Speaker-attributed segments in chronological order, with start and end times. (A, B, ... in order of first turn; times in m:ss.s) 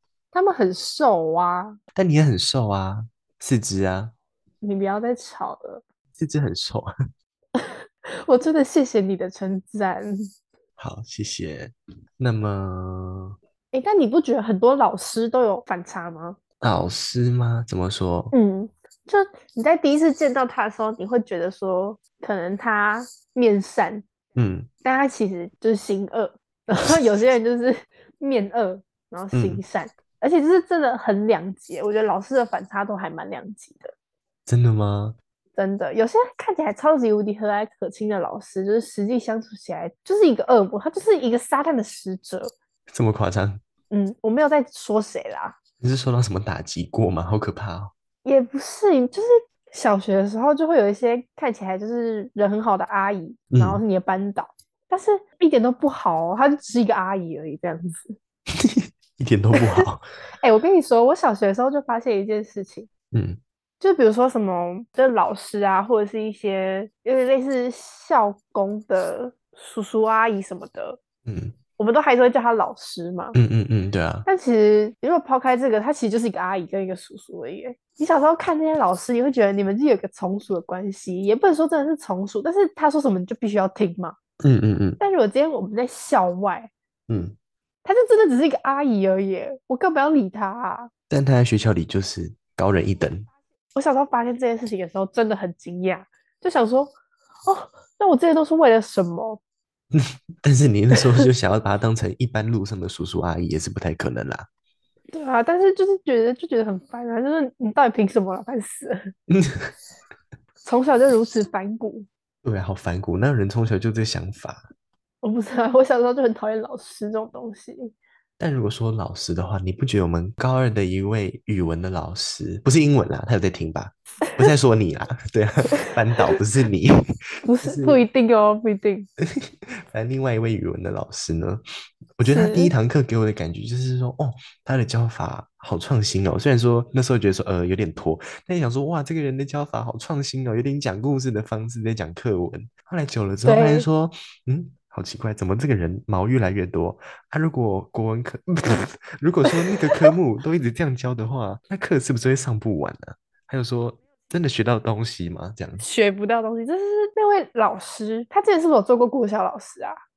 0:00.3-0:01.8 A
0:02.0-0:04.2 B
0:04.6-0:05.8 A
0:06.2-0:06.9 B
0:07.6-0:10.3 A
0:10.8-0:13.4 B
0:13.7-0:16.4 A
0:16.6-0:18.3 B
0:18.3-0:24.1 A
0:24.4-0:24.7 B
0:24.8-0:33.9 A
0:29.3-0:29.6 B
0:34.5-0:35.2 B
0:35.6-0:42.5 A
0:42.9-0:43.6 B
0:43.9-0:45.6 A
0:45.8-0:47.9 B
0:48.2-0:58.2 A
0:53.5-0:53.8 B
0:58.6-1:00.0 B
0:59.5-0:59.9 A
1:00.4-1:02.9 A
1:03.1-1:03.4 B
1:03.8-1:11.0 A
1:11.3-1:11.6 B
1:11.8-1:13.4 A
1:13.4-1:14.3 B
1:14.3-1:24.2 A
1:24.4-1:25.0 B
1:25.0-1:26.7 A
1:27.1-1:27.4 B
1:27.8-1:30.9 A
1:31.1-1:33.3 B
1:33.8-1:36.9 A
1:37.5-1:39.4 A
1:39.9-1:44.5 B
1:45.1-1:49.1 A
1:49.3-1:49.7 B
1:50.6-1:52.1 A
1:52.4-1:54.7 B
1:55.2-1:57.9 A
1:58.4-2:07.0 B
2:07.4-2:09.1 A
2:07.6-2:08.0 B
2:09.2-2:11.6 B
2:12.2-2:35.8 B
2:12.2-2:12.7 A
2:23.4-2:23.9 A
2:35.8-2:40.0 A